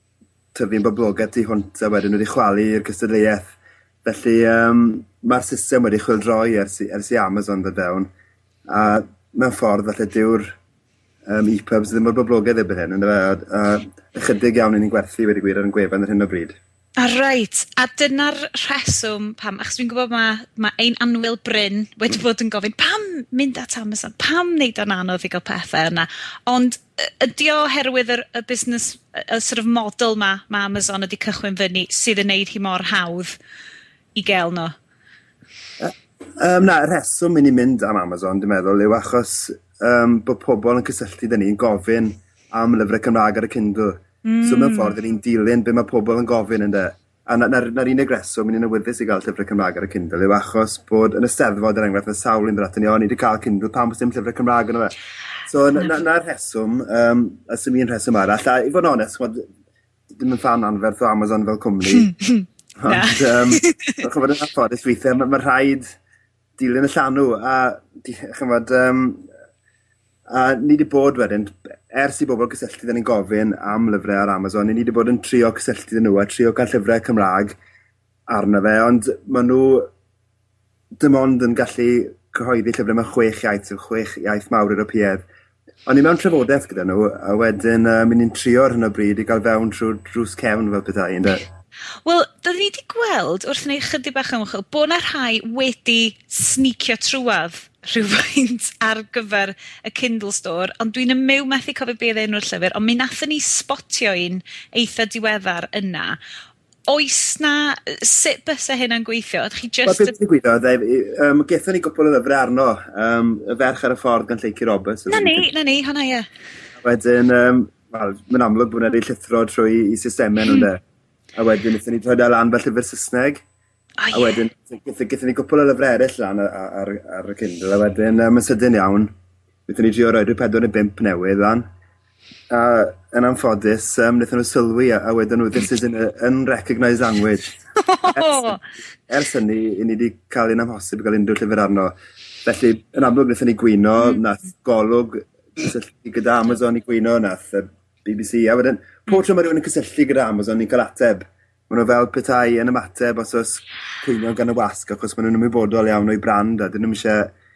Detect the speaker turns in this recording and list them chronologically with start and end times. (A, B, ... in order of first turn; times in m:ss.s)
0:00.5-0:08.1 A
0:08.7-0:10.5 A
0:11.3-0:16.6 A
0:17.0-0:33.4 B
0:34.2-0:34.7 B
0:35.8-0:54.9 A
0:44.2-0:44.9 B
0:55.5-0:59.4 A
1:00.1-1:02.1 A
1:02.0-1:04.0 B
1:02.8-1:05.9 A
1:06.6-1:09.2 A
1:10.3-1:17.5 A
1:18.3-1:19.9 A
1:21.0-1:25.2 A
1:25.8-1:31.5 A
1:32.0-1:46.2 B
1:46.9-1:50.1 B
1:49.8-1:55.5 A
1:55.1-1:56.3 B
1:56.8-2:00.8 A
2:01.4-2:03.4 A
2:04.0-2:04.4 B
2:04.1-2:09.1 A
2:09.7-2:11.6 A
2:12.5-2:17.6 A
2:17.8-2:18.6 B
2:18.1-2:21.9 A
2:22.4-2:37.3 A